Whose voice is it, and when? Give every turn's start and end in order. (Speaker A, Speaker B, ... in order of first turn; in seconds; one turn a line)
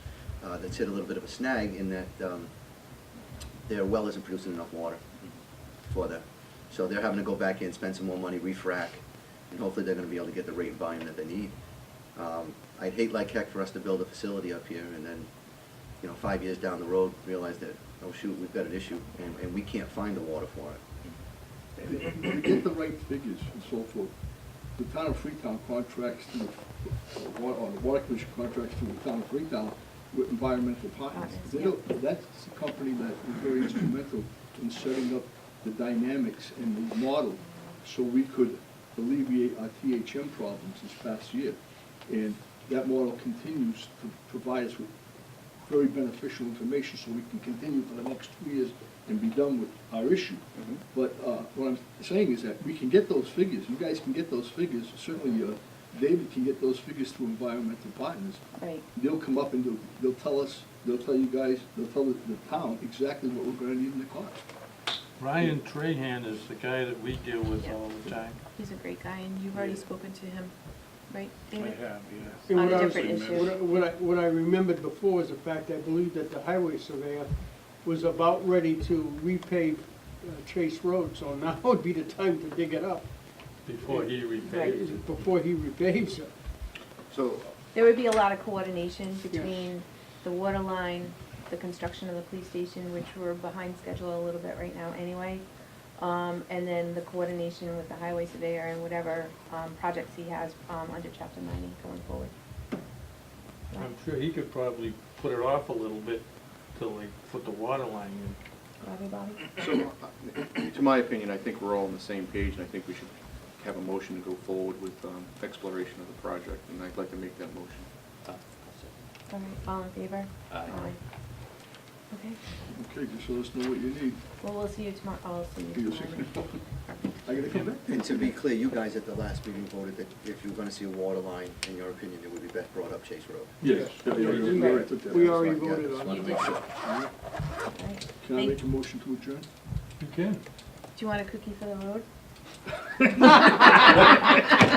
Speaker A: 0.4-2.5
Speaker A: 3.7-5.0
Speaker A: 5.9-11.5
Speaker A: 12.1-15.3
Speaker A: 16.0-20.8
Speaker B: 21.8-24.1
Speaker B: 24.8-44.9
Speaker C: 31.1-31.8
Speaker B: 45.6-58.4
Speaker C: 58.6-58.8
Speaker B: 58.9-64.4
Speaker D: 65.2-68.4
Speaker C: 68.5-70.5
Speaker C: 71.1-71.8
Speaker D: 71.6-73.5
Speaker E: 72.5-83.1
Speaker C: 72.5-73.5
Speaker D: 83.6-85.1
Speaker C: 84.4-84.8
Speaker E: 84.7-86.3
Speaker A: 87.1-87.5
Speaker C: 87.7-95.5
Speaker C: 96.0-102.3
Speaker D: 103.8-106.2
Speaker D: 106.7-108.4
Speaker C: 108.8-109.5
Speaker F: 109.6-117.8
Speaker C: 119.3-121.0
Speaker C: 122.1-122.4
Speaker B: 122.7-124.2
Speaker C: 124.4-127.2
Speaker B: 125.7-126.3
Speaker B: 127.2-128.3
Speaker A: 127.9-133.5
Speaker B: 133.6-135.5
Speaker D: 133.7-134.6
Speaker E: 134.1-136.5
Speaker C: 134.6-134.9
Speaker A: 134.7-136.6
Speaker B: 136.8-137.1
Speaker C: 137.7-138.6
Speaker B: 138.2-139.4
Speaker D: 140.0-140.4
Speaker C: 140.9-142.0